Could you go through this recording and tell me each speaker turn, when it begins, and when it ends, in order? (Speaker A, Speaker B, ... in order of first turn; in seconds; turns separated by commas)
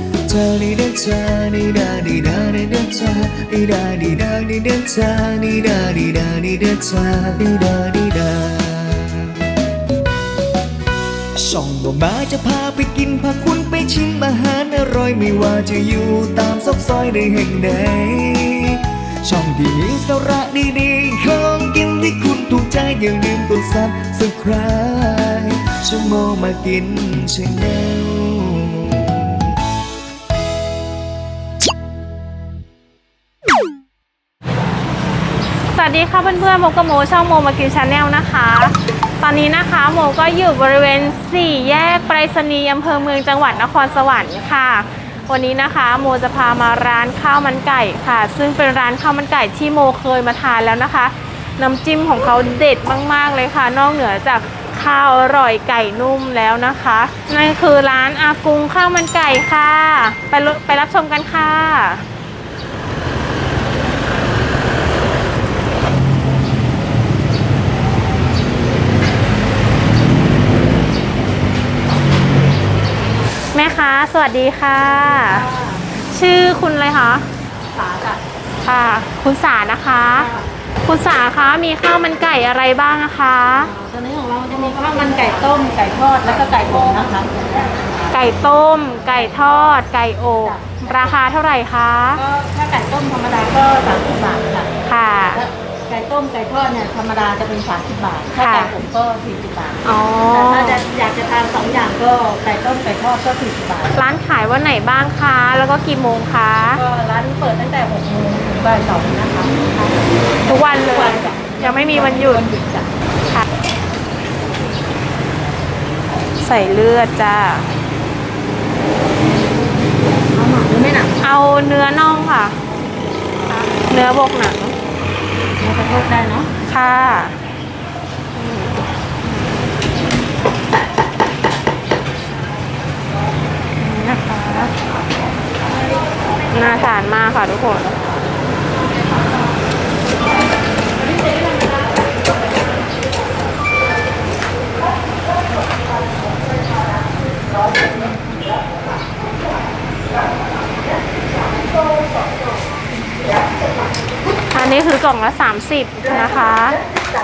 Speaker A: 0.3-9.3, Speaker A: 11.4-29.5, Speaker B: 35.7-62.0, Speaker B: 73.5-75.4, Speaker C: 74.9-75.9, Speaker B: 76.0-77.3, Speaker C: 77.7-78.2, Speaker B: 78.6-80.3, Speaker C: 80.1-80.5, Speaker B: 80.8-83.7, Speaker C: 83.6-88.2, Speaker B: 84.5-85.3, Speaker B: 88.1-92.2, Speaker C: 88.9-91.2, Speaker C: 92.1-94.7, Speaker B: 94.9-95.4, Speaker C: 95.3-104.0, Speaker B: 98.4-98.7, Speaker B: 99.8-100.8, Speaker B: 103.9-106.8, Speaker C: 106.7-110.1, Speaker B: 110.5-112.5, Speaker C: 110.7-112.9, Speaker B: 116.4-117.7, Speaker C: 120.3-121.2, Speaker B: 121.2-122.6, Speaker B: 123.5-124.8, Speaker C: 125.6-126.5, Speaker B: 126.7-127.4, Speaker B: 128.3-129.7, Speaker B: 133.8-134.7, Speaker B: 136.5-138.0, Speaker B: 154.5-156.8